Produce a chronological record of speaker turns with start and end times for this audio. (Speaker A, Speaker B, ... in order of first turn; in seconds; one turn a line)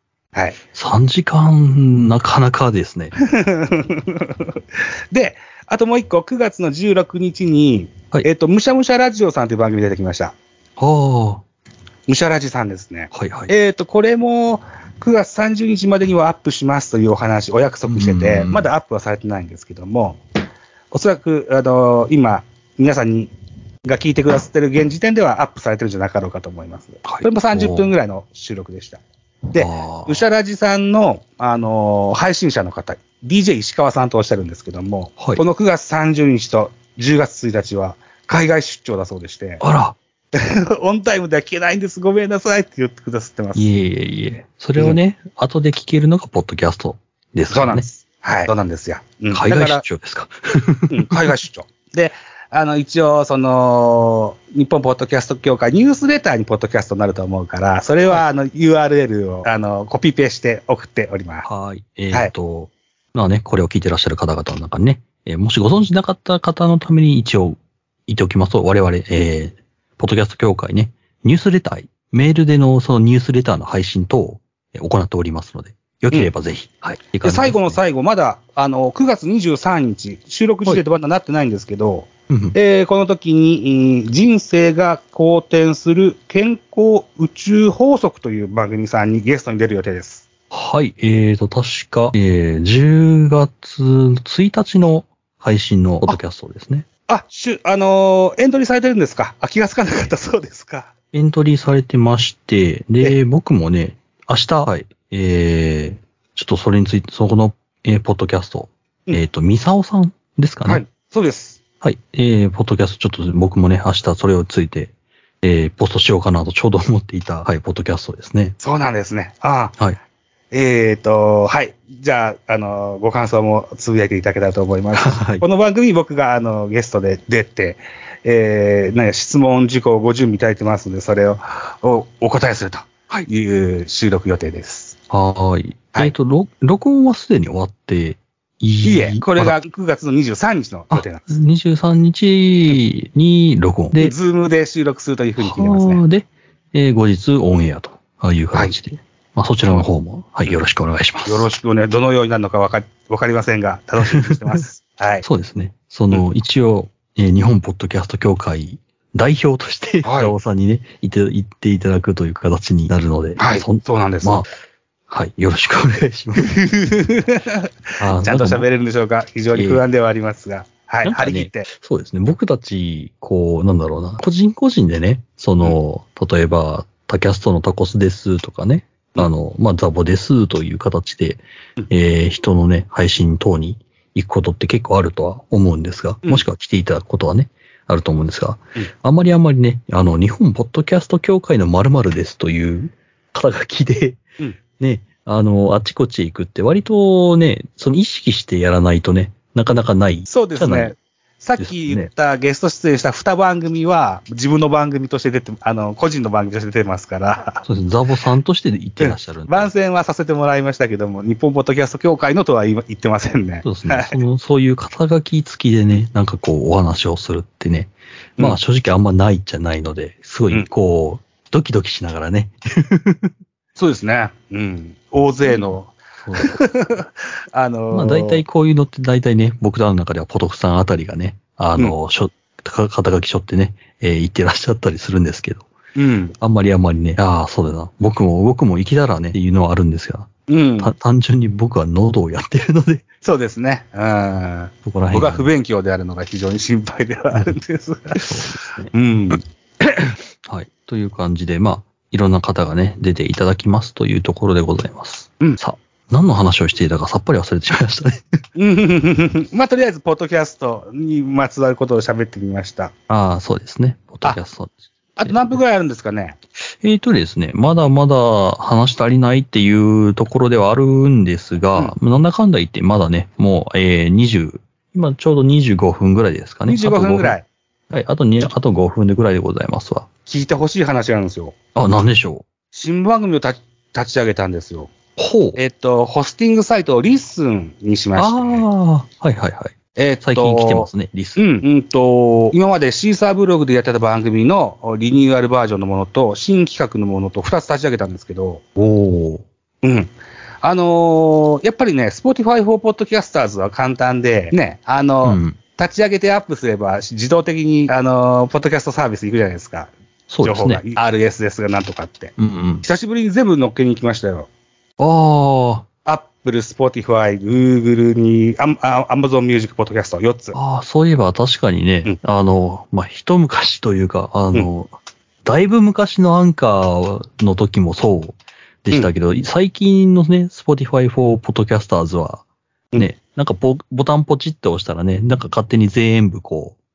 Speaker A: 0.7-3.1
Speaker B: 3.2-10.3
Speaker A: 10.8-11.4
Speaker B: 12.1-20.2
Speaker A: 13.1-13.5
Speaker A: 17.9-18.7
Speaker B: 20.9-23.3
Speaker B: 23.9-39.6
Speaker A: 27.1-27.9
Speaker A: 29.6-30.2
Speaker A: 39.6-40.0
Speaker B: 40.3-43.7
Speaker A: 43.5-47.9
Speaker B: 47.5-49.8
Speaker A: 49.3-51.2
Speaker B: 50.9-61.5
Speaker A: 61.5-77.8
Speaker B: 77.2-90.3
Speaker A: 82.3-82.6
Speaker A: 90.5-96.9
Speaker B: 97.1-100.9
Speaker A: 101.1-110.8
Speaker B: 110.7-111.6
Speaker A: 111.8-118.5
Speaker B: 118.6-119.8
Speaker B: 120.5-135.0
Speaker A: 125.0-125.4
Speaker A: 135.1-139.6
Speaker B: 138.8-141.4
Speaker A: 140.9-144.2
Speaker B: 144.0-146.0
Speaker A: 145.4-151.5
Speaker B: 151.2-155.3
Speaker A: 154.0-154.6
Speaker A: 155.2-164.5
Speaker B: 160.0-160.3
Speaker B: 163.4-164.4
Speaker A: 165.1-166.5
Speaker B: 166.4-171.7
Speaker A: 168.0-168.7
Speaker A: 169.5-169.8
Speaker A: 171.0-194.2
Speaker A: 194.8-200.9
Speaker B: 200.3-207.6
Speaker A: 201.6-202.1
Speaker A: 207.6-209.7
Speaker B: 209.0-214.2
Speaker A: 213.6-223.3
Speaker B: 223.8-228.4
Speaker A: 226.2-226.6
Speaker A: 227.9-235.7
Speaker B: 236.0-236.3
Speaker A: 236.4-243.0
Speaker B: 240.5-240.9
Speaker B: 243.2-248.3
Speaker A: 244.8-245.5
Speaker A: 248.2-248.9
Speaker B: 248.9-249.4
Speaker A: 250.5-258.4
Speaker B: 258.6-262.9
Speaker A: 263.1-265.6
Speaker B: 265.2-266.4
Speaker A: 266.6-277.4
Speaker B: 276.7-277.4
Speaker A: 277.9-280.1
Speaker B: 280.3-281.6
Speaker A: 281.8-282.5
Speaker B: 282.7-284.9
Speaker A: 285.2-285.6
Speaker B: 285.6-288.6
Speaker A: 288.2-291.4
Speaker B: 290.0-298.6
Speaker A: 298.8-299.4
Speaker B: 299.8-300.1
Speaker B: 300.6-309.9
Speaker A: 305.2-305.6
Speaker A: 310.3-310.8
Speaker B: 310.4-314.5
Speaker A: 312.4-312.9
Speaker A: 315.0-315.9
Speaker B: 316.1-320.6
Speaker A: 320.5-324.9
Speaker A: 325.4-332.4
Speaker A: 333.0-336.8